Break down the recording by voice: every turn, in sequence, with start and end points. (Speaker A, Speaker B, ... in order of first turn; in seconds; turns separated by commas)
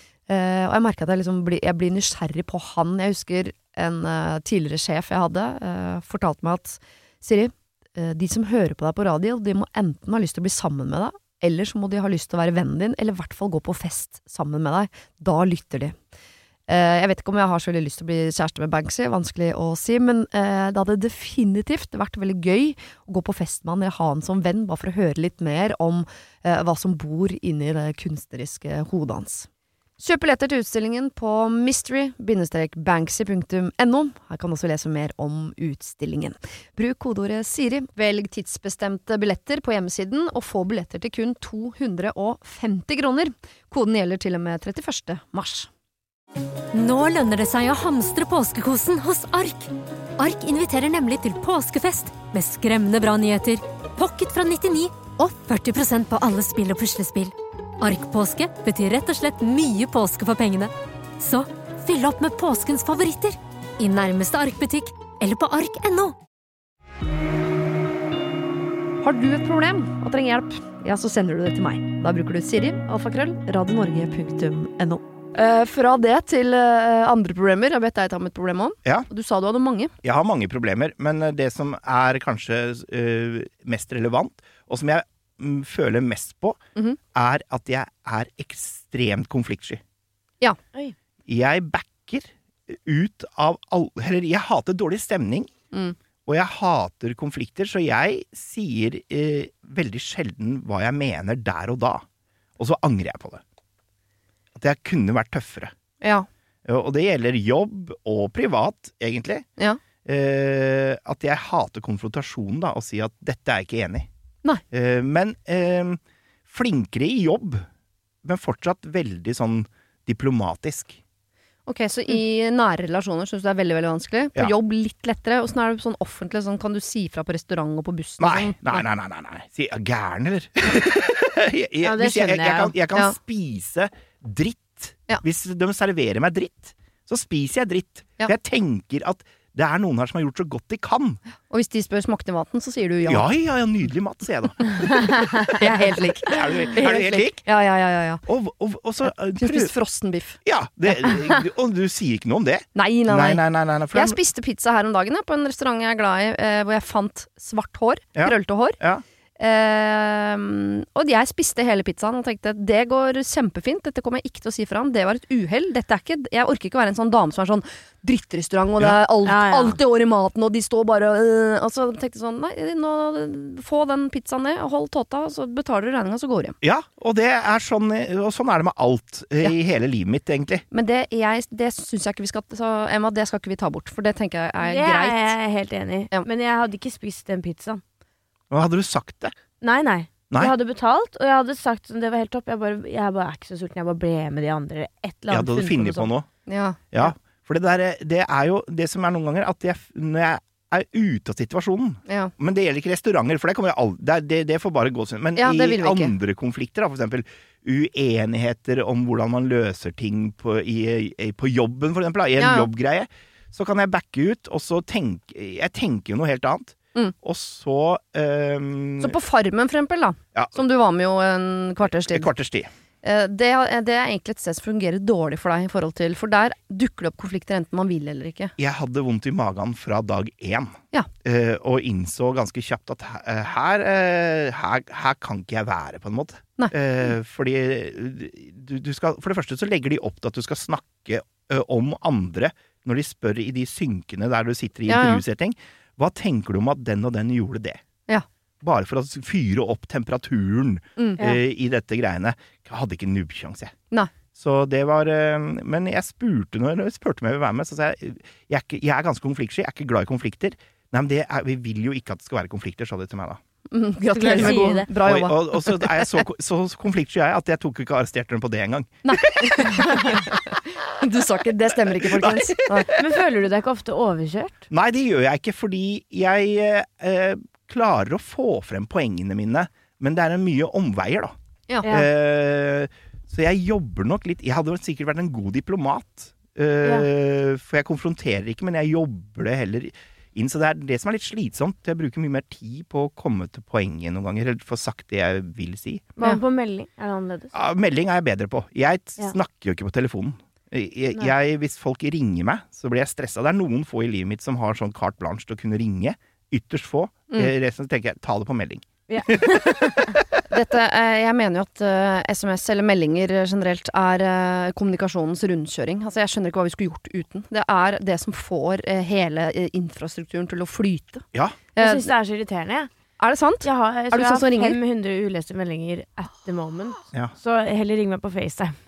Speaker A: 0.3-15.9, Speaker A: 16.7-29.5, Speaker A: 30.0-45.7, Speaker B: 46.7-66.2, Speaker A: 69.0-79.9, Speaker C: 80.0-86.6, Speaker C: 87.1-89.8, Speaker C: 91.2-95.5, Speaker C: 96.2-102.0, Speaker C: 102.6-103.4, Speaker C: 104.5-105.7, Speaker A: 106.0-106.2, Speaker C: 106.6-109.4, Speaker C: 110.0-114.1, Speaker C: 114.7-117.7, Speaker C: 118.2-121.0, Speaker A: 121.7-128.8, Speaker C: 128.2-141.2, Speaker D: 131.8-132.7, Speaker A: 141.5-143.2, Speaker C: 143.1-145.4, Speaker A: 145.6-148.2, Speaker C: 146.3-147.4, Speaker C: 148.2-149.7, Speaker A: 149.1-150.4, Speaker C: 150.4-154.2, Speaker A: 152.8-158.8, Speaker C: 158.2-159.0, Speaker A: 159.4-176.6, Speaker D: 169.2-169.8, Speaker C: 176.6-180.6, Speaker A: 180.7-185.3, Speaker D: 184.6-187.8, Speaker C: 188.5-189.3, Speaker D: 189.6-196.1, Speaker C: 195.3-196.3, Speaker A: 196.4-197.1, Speaker C: 196.9-219.2, Speaker A: 202.1-202.3, Speaker A: 205.3-206.1, Speaker A: 212.4-212.7, Speaker A: 219.0-222.3, Speaker C: 222.1-222.7, Speaker A: 223.0-228.5, Speaker C: 228.6-247.8, Speaker A: 244.9-245.2, Speaker C: 248.6-253.7, Speaker A: 251.0-251.3, Speaker C: 254.3-263.4, Speaker A: 263.7-266.2, Speaker D: 264.1-264.9, Speaker C: 264.3-270.2, Speaker A: 269.0-272.9, Speaker C: 271.7-272.9, Speaker D: 272.9-274.7, Speaker C: 274.7-281.3, Speaker C: 281.9-296.1, Speaker D: 296.2-297.5, Speaker C: 297.5-310.2, Speaker D: 309.1-310.1, Speaker A: 310.5-321.2, Speaker A: 321.8-322.1, Speaker D: 321.8-322.9, Speaker A: 323.2-324.8, Speaker D: 323.6-328.7